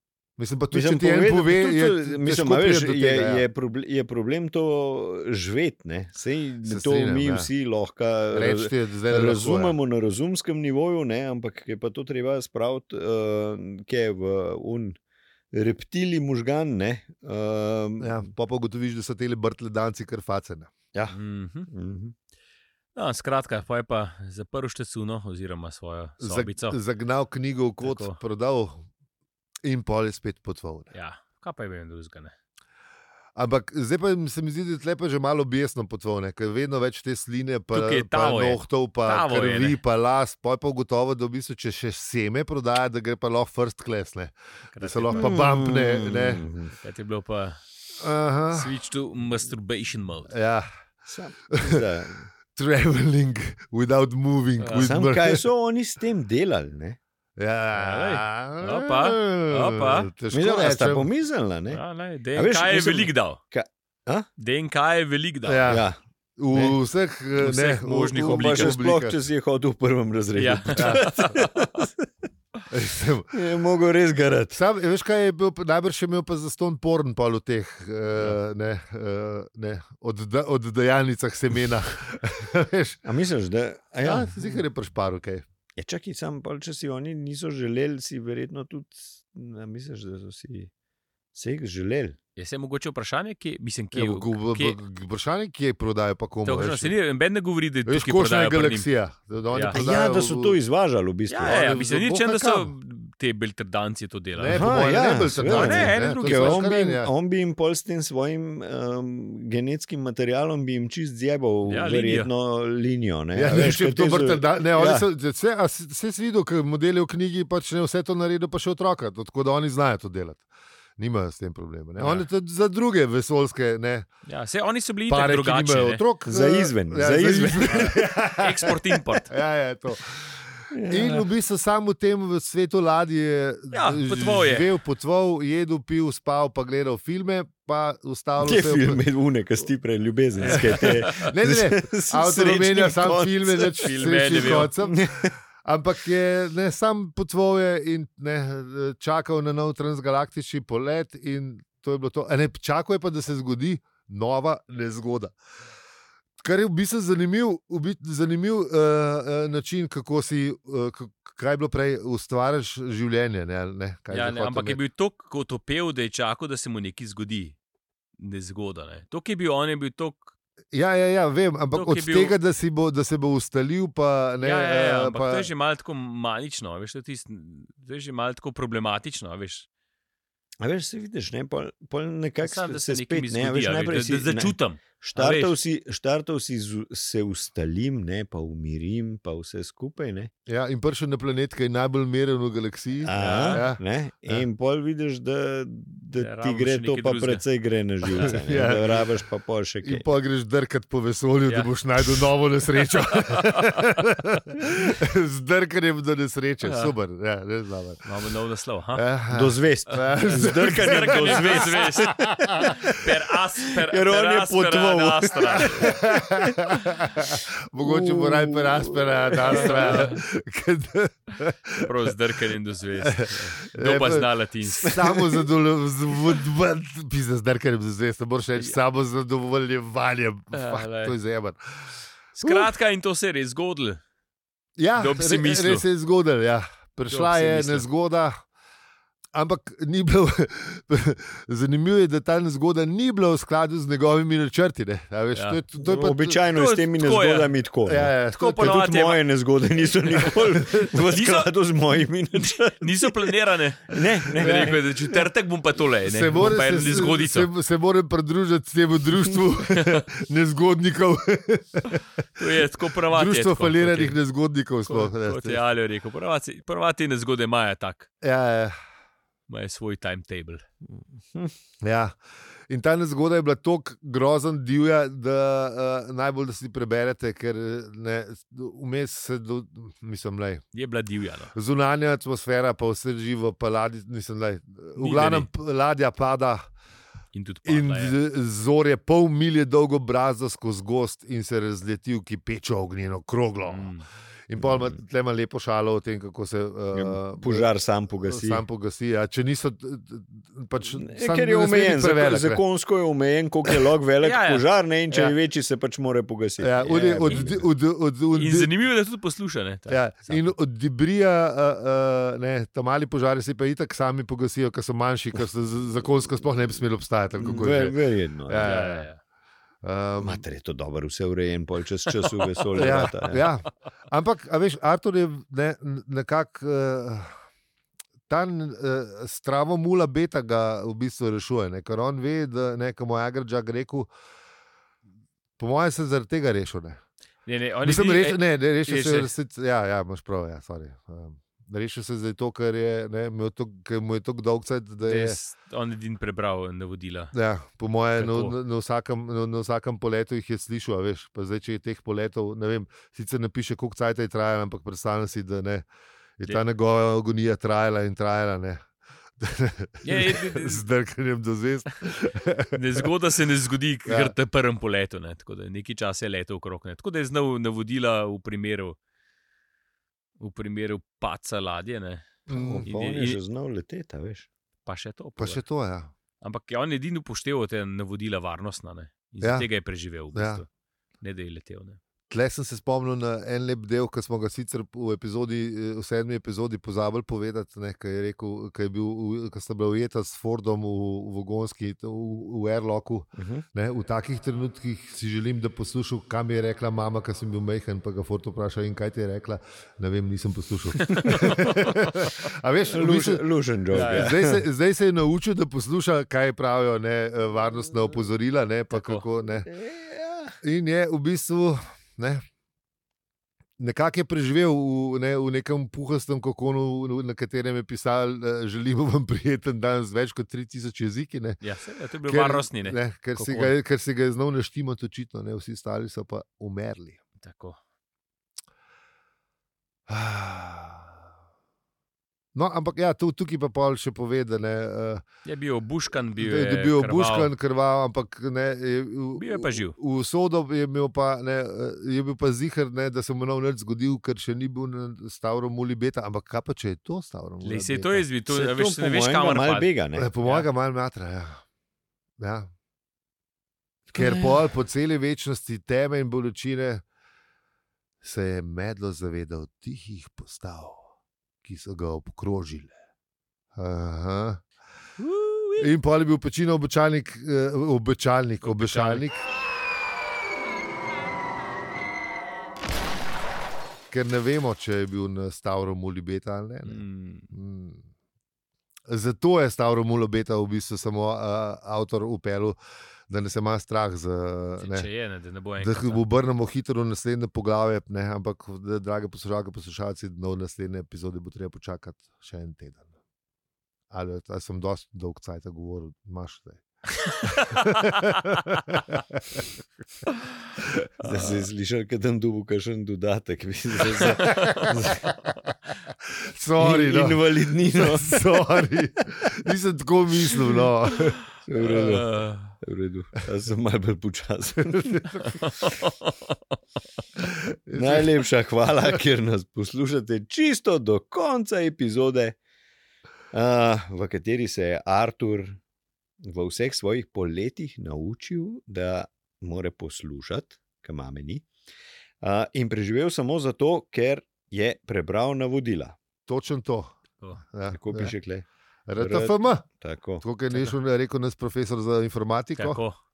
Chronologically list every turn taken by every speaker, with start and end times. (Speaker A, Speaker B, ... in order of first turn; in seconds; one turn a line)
Speaker A: 0.4-3.4
Speaker B: 0.7-15.0
Speaker A: 6.7-7.5
Speaker A: 8.3-9.8
Speaker B: 15.5-18.2
Speaker A: 18.0-20.7
Speaker C: 21.1-21.7
Speaker B: 21.7-22.1
Speaker C: 22.9-26.8
Speaker A: 26.2-28.8
Speaker C: 27.8-28.2
Speaker A: 29.6-30.9
Speaker C: 30.9-32.3
Speaker A: 33.4-46.4
Speaker C: 37.7-39.8
Speaker C: 44.7-45.3
Speaker B: 45.1-46.7
Speaker C: 46.8-47.6
Speaker A: 48.0-48.7
Speaker C: 48.5-50.3
Speaker A: 50.3-50.7
Speaker B: 51.0-52.3
Speaker A: 51.5-51.8
Speaker A: 52.5-55.5
Speaker C: 54.6-54.9
Speaker B: 54.7-57.0
Speaker A: 57.4-61.1
Speaker C: 57.7-60.1
Speaker B: 60.3-61.8
Speaker C: 61.7-63.4
Speaker B: 62.3-64.3
Speaker C: 64.4-65.8
Speaker A: 65.5-69.2
Speaker B: 65.7-66.0
Speaker C: 67.4-68.8
Speaker B: 68.1-72.1
Speaker C: 70.3-71.9
Speaker A: 70.8-71.1
Speaker A: 72.7-73.3
Speaker B: 73.3-74.6
Speaker A: 74.5-83.0
Speaker B: 83.0-84.6
Speaker A: 84.0-85.4
Speaker B: 85.8-90.7
Speaker B: 91.3-92.2
Speaker C: 92.4-94.8
Speaker A: 93.9-96.9
Speaker C: 96.4-98.9
Speaker A: 97.8-100.5
Speaker C: 99.5-99.8
Speaker B: 99.7-101.6
Speaker C: 101.3-104.7
Speaker A: 101.4-102.7
Speaker A: 104.3-107.1
Speaker B: 104.5-115.0
Speaker C: 105.4-106.7
Speaker C: 111.7-112.3
Speaker A: 113.3-120.4
Speaker A: 121.0-124.1
Speaker C: 122.0-122.2
Speaker C: 124.2-126.0
Speaker A: 125.1-128.7
Speaker B: 126.3-128.0
Speaker C: 127.7-129.3
Speaker A: 129.3-139.0
Speaker B: 130.7-131.2
Speaker C: 133.7-134.7
Speaker B: 138.4-145.3
Speaker C: 140.4-141.3
Speaker A: 140.4-155.3
Speaker C: 143.8-144.7
Speaker A: 156.4-164.8
Speaker C: 164.1-167.6
Speaker C: 168.2-170.3
Speaker A: 170.7-175.5
Speaker C: 171.7-172.3
Speaker C: 174.4-179.7
Speaker B: 180.6-190.3
Speaker C: 182.4-185.6
Speaker A: 190.5-194.4
Speaker B: 193.1-200.1
Speaker C: 193.1-193.6
Speaker C: 196.2-197.4
Speaker C: 198.1-198.3
Speaker A: 198.2-199.1
Speaker A: 199.8-208.1
Speaker C: 203.1-204.0
Speaker C: 206.6-206.9
Speaker C: 208.0-209.0
Speaker A: 208.9-213.0
Speaker B: 209.3-213.0
Speaker C: 210.3-216.0
Speaker B: 213.9-220.1
Speaker A: 215.8-222.1
Speaker C: 219.4-220.2
Speaker C: 221.8-225.0
Speaker A: 223.0-231.9
Speaker B: 224.8-225.5
Speaker C: 230.5-231.2
Speaker C: 232.3-234.0
Speaker A: 232.4-232.7
Speaker A: 234.8-238.4
Speaker C: 235.0-235.8
Speaker C: 237.1-237.8
Speaker A: 239.3-246.4
Speaker C: 245.3-245.6
Speaker B: 245.8-253.3
Speaker C: 246.5-247.5
Speaker A: 247.8-248.8
Speaker C: 248.3-249.2
Speaker C: 250.1-251.5
Speaker C: 252.3-257.5
Speaker B: 253.9-255.2
Speaker A: 254.4-254.8
Speaker A: 256.0-265.6
Speaker C: 259.7-260.0
Speaker C: 262.4-264.1
Speaker C: 264.9-268.1
Speaker A: 268.2-268.7
Speaker C: 269.5-270.6
Speaker B: 270.9-271.5
Speaker A: 271.8-272.1
Speaker A: 272.7-280.6
Speaker C: 280.7-281.5
Speaker A: 281.5-286.6
Speaker C: 284.9-285.5
Speaker C: 287.3-288.2
Speaker A: 287.6-293.9
Speaker C: 293.6-294.1
Speaker A: 294.5-297.6
Speaker B: 294.6-294.9
Speaker B: 296.9-298.6
Speaker A: 298.2-302.6
Speaker B: 301.0-307.7
Speaker C: 304.2-304.6
Speaker A: 306.6-308.7
Speaker C: 308.3-310.5
Speaker A: 309.9-319.1
Speaker B: 317.4-318.8
Speaker C: 318.6-319.2
Speaker A: 319.8-320.4
Speaker B: 320.2-323.5
Speaker C: 322.4-322.7
Speaker A: 322.7-327.3
Speaker A: 328.3-334.1
Speaker A: 335.6-337.0
Speaker C: 337.4-339.3
Speaker A: 337.8-345.4
Speaker C: 345.0-347.3
Speaker A: 347.3-355.9
Speaker C: 348.1-348.5
Speaker A: 356.4-363.1
Speaker C: 360.0-360.8
Speaker C: 362.7-369.0
Speaker A: 364.1-364.3
Speaker C: 370.4-373.4
Speaker A: 372.5-372.9
Speaker B: 372.5-374.5
Speaker C: 374.9-375.6
Speaker A: 375.4-376.1
Speaker C: 376.4-380.7
Speaker A: 379.4-379.7
Speaker A: 380.3-380.6
Speaker C: 381.2-382.0
Speaker A: 382.3-409.7
Speaker B: 393.4-393.6
Speaker C: 401.0-401.8
Speaker B: 401.2-401.8
Speaker B: 402.9-404.6
Speaker C: 403.9-404.4
Speaker C: 408.9-409.2
Speaker B: 409.6-410.6
Speaker A: 410.6-412.4
Speaker A: 413.8-421.6
Speaker C: 421.6-423.7
Speaker A: 422.2-427.2
Speaker C: 427.4-427.8
Speaker A: 430.1-431.1
Speaker A: 432.5-435.2
Speaker C: 435.4-437.5
Speaker A: 436.4-448.2
Speaker C: 439.3-440.0
Speaker C: 447.6-449.9
Speaker B: 448.5-450.3
Speaker A: 450.1-451.6
Speaker A: 452.4-452.7
Speaker A: 454.1-457.0
Speaker C: 454.2-454.4
Speaker A: 458.2-461.1
Speaker A: 461.6-462.9
Speaker A: 463.7-464.6
Speaker C: 465.2-465.9
Speaker A: 465.8-469.4
Speaker C: 468.6-469.2
Speaker A: 474.1-478.0
Speaker C: 476.9-477.5
Speaker A: 479.1-482.8
Speaker A: 483.3-485.1
Speaker C: 484.8-486.2
Speaker A: 485.8-493.0
Speaker A: 494.1-496.8
Speaker C: 497.2-498.3
Speaker A: 497.4-499.7
Speaker B: 501.2-505.3
Speaker C: 504.4-504.9
Speaker A: 504.5-504.9
Speaker A: 506.4-512.2
Speaker B: 506.8-508.6
Speaker B: 511.6-515.5
Speaker C: 511.8-512.7
Speaker A: 514.9-515.6
Speaker C: 515.4-516.7
Speaker A: 517.4-518.4
Speaker B: 517.9-522.6
Speaker B: 523.5-525.8
Speaker B: 526.4-531.6
Speaker B: 532.4-536.2
Speaker A: 536.5-538.4
Speaker B: 537.9-538.6
Speaker A: 539.1-539.9
Speaker B: 539.2-540.4
Speaker A: 540.4-543.0
Speaker C: 540.7-541.0
Speaker C: 542.8-543.2